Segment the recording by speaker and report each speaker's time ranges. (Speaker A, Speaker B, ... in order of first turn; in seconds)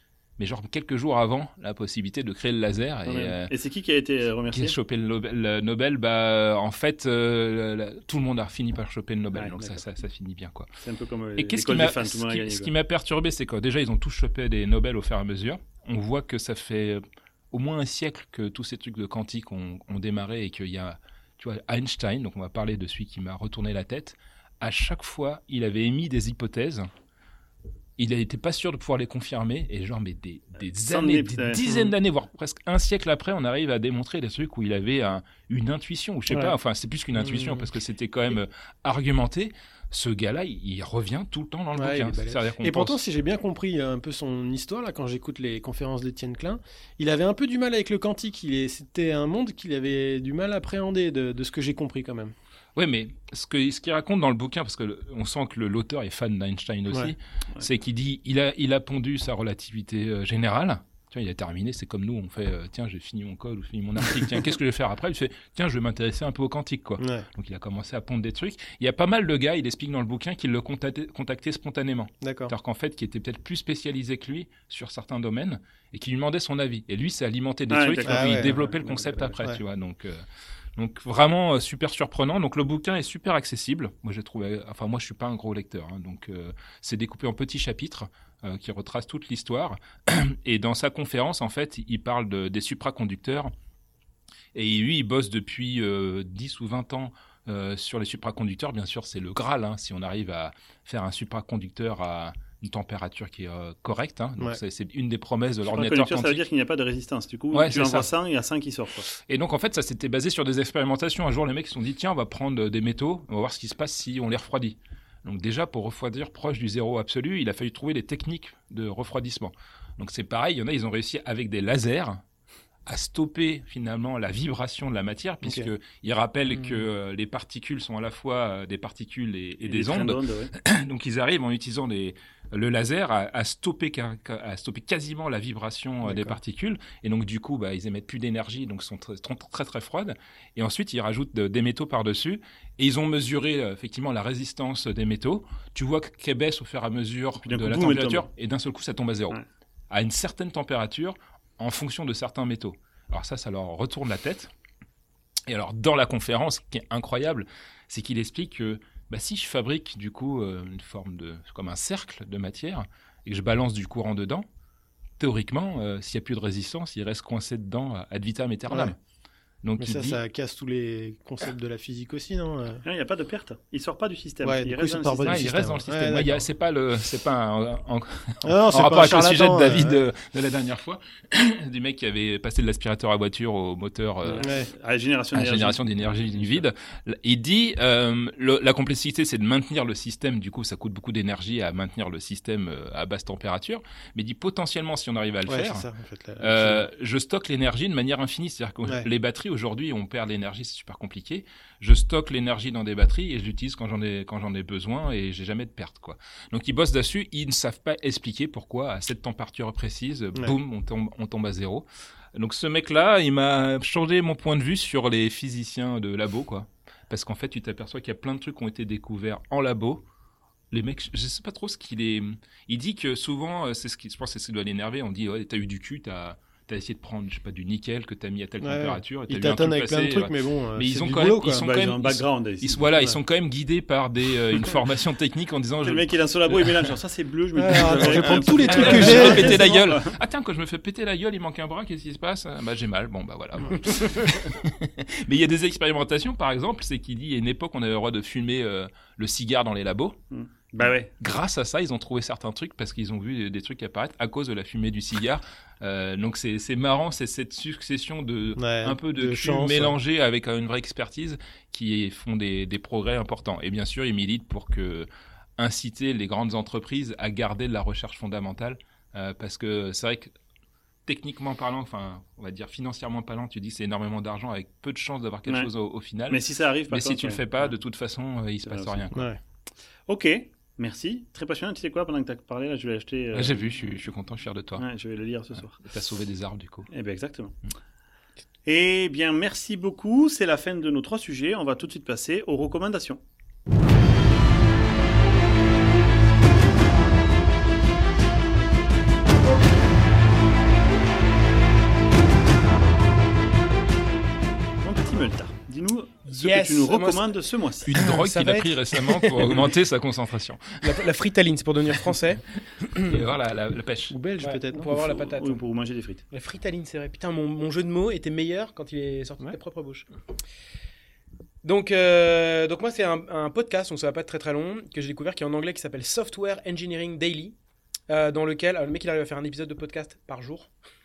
Speaker A: 0.4-3.5, 4.5-10.7, 11.4-26.9, 28.0-43.0, 52.8-80.2, 80.8-93.5, 94.5-106.4, 107.5-108.1, 109.2-122.2, 122.9-154.5, 155.5-164.4, 165.2-169.0, 169.6-170.2, 175.2-184.5, 185.3-195.9, 196.4-220.0, 220.7-236.8, 237.9-250.2, 251.2-270.3, 271.1-279.3, 283.3-284.9, 285.8-286.9, 307.9-311.0, 313.0-314.2
Speaker B: 3.1-4.8, 9.3-9.8, 10.8-12.7, 30.8-31.6, 77.7-79.4, 105.7-109.1, 129.6-130.5, 147.4-148.3, 172.8-175.5, 184.2-186.7, 231.5-232.8, 235.8-240.1, 250.3-251.1, 276.3-277.7, 278.6-279.1, 280.1-283.6, 284.8-285.8, 286.9-287.6, 288.7-293.2, 304.8-308.1, 314.9-316.2
Speaker C: 36.3-36.5, 37.2-37.7, 41.8-52.3, 67.0-67.3, 72.2-72.5, 78.0-78.6, 125.4-125.7, 136.0-136.4, 169.8-172.8, 174.4-176.4, 178.4-180.0, 184.4-184.7, 195.5-196.9, 228.6-231.7, 237.6-239.7, 258.6-259.9, 279.1-279.4, 314.1-315.0
Speaker D: 306.3-307.3, 307.9-309.6, 310.8-313.2, 314.4-315.6, 316.3-320.1, 321.6-327.6, 328.1-330.7